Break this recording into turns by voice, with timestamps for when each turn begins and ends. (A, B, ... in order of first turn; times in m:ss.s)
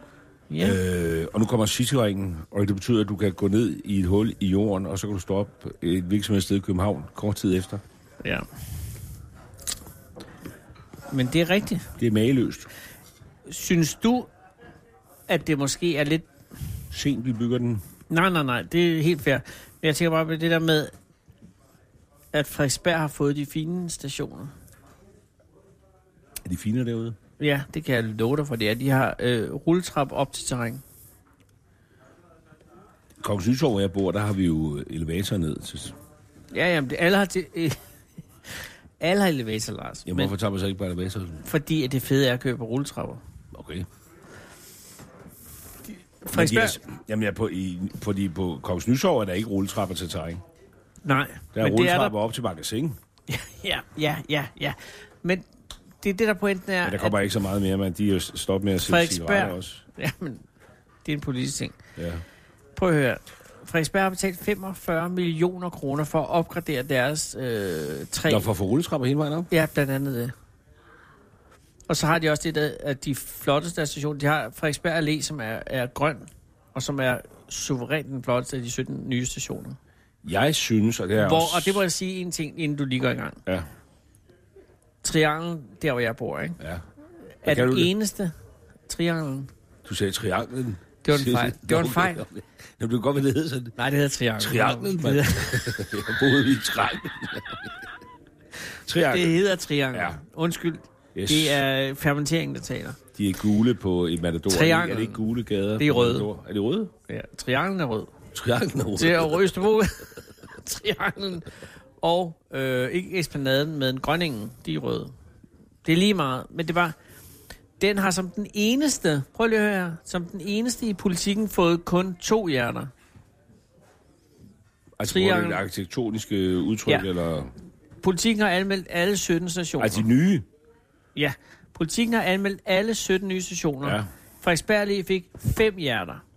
0:00.5-0:00.8 A
0:00.6-0:07.8 B
0:11.1-0:11.9 A
0:12.0-0:12.7 B
0:13.5-0:14.3 A
0:15.3-0:16.3 A
0:16.9-0:17.8 B
0:18.1-0:20.9 A
0:22.3-0:24.5 A
0:26.4-0:27.2 B
0:27.4-0:30.8 A
0:33.2-0:36.0 B
0:36.5-0:37.8 A
0:38.5-0:40.3 A
0:40.1-0:41.4 B
0:41.4-0:43.2 A
0:43.5-0:43.9 B
0:45.9-0:46.8 A
0:46.3-0:50.4 B
0:51.0-0:52.2 A
0:51.6-0:53.0 B
0:53.3-0:55.4 A
0:56.0-0:57.2 A
0:56.8-0:59.8 B
0:58.8-1:00.4 A
1:01.0-1:01.8 A
1:02.0-1:02.2 B
1:02.8-1:08.5 A
1:08.3-1:09.5 B
1:09.5-1:10.3 A
1:11.9-1:19.8 A
1:20.2-1:21.8 B
1:21.2-1:23.4 A
1:25.0-1:26.6 A
1:27.4-1:28.3 A
1:27.4-1:27.9 B
1:28.9-1:29.5 A
1:29.8-1:33.8 B
1:31.0-1:32.2 A
1:33.8-1:35.8 A
1:34.4-1:37.8 B
1:38.8-1:40.2 B
1:39.1-1:43.0 A
1:41.2-1:41.6 B
1:43.1-1:46.9 B
1:44.5-1:45.2 A
1:45.8-1:46.3 A
1:47.1-1:48.1 A
1:48.3-1:49.7 B
1:49.0-1:55.1 A
1:55.8-1:57.0 A
1:57.8-2:02.9 A
2:05.0-2:07.5 B
2:05.0-2:05.6 A
2:08.0-2:10.0 A
2:09.8-2:10.5 B
2:11.2-2:16.2 A
2:13.8-2:14.1 B